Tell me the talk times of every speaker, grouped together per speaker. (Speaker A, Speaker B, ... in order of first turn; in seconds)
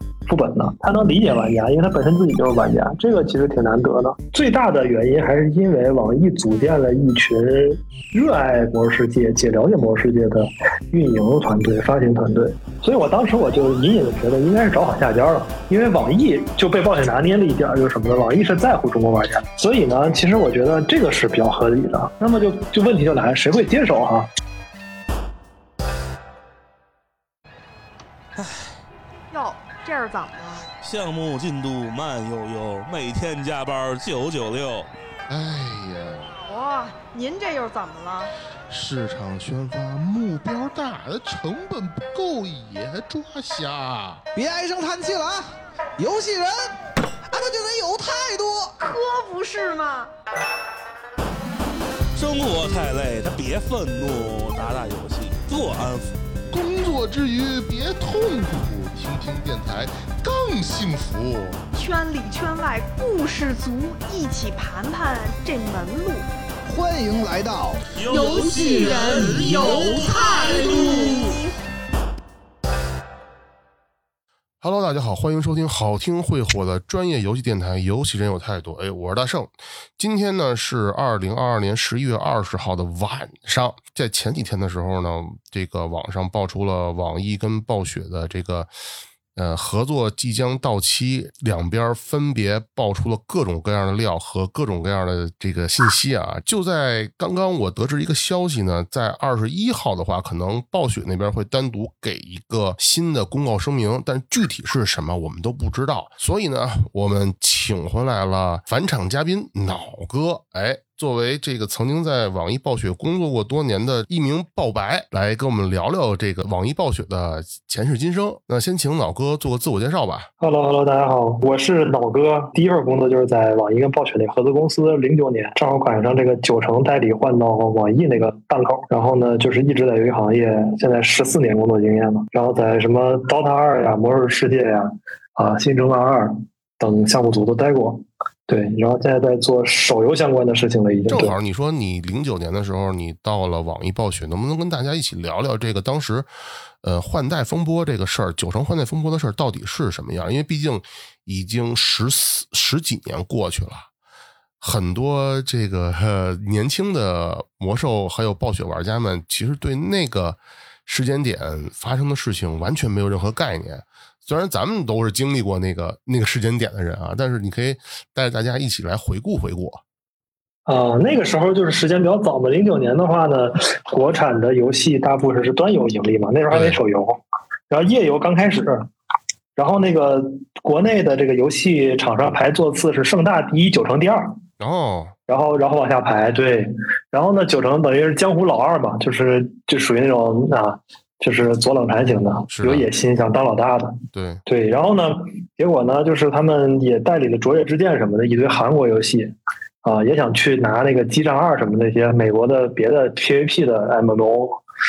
Speaker A: 0.3-24.3, 120.4-141.3, 170.7-177.2, 177.7-178.9, 179.6-184.3, 185.3-204.6
Speaker B: 28.4-28.8, 30.8-34.9, 52.1-56.1, 67.9-70.2
Speaker C: 29.3-30.7, 36.5-38.3, 48.8-50.1, 61.7-66.3, 68.1-71.5
Speaker D: 35.3-36.3, 38.7-44.2, 56.5-61.6, 74.6-88.7, 89.3-120.3, 141.1-146.3, 146.8-153.9, 154.6-169.8, 176.5-176.8, 184.6-185.1, 192.5-192.9, 194.1-194.4
Speaker E: 44.3-46.7, 47.3-48.7, 66.7-67.9, 68.4-71.1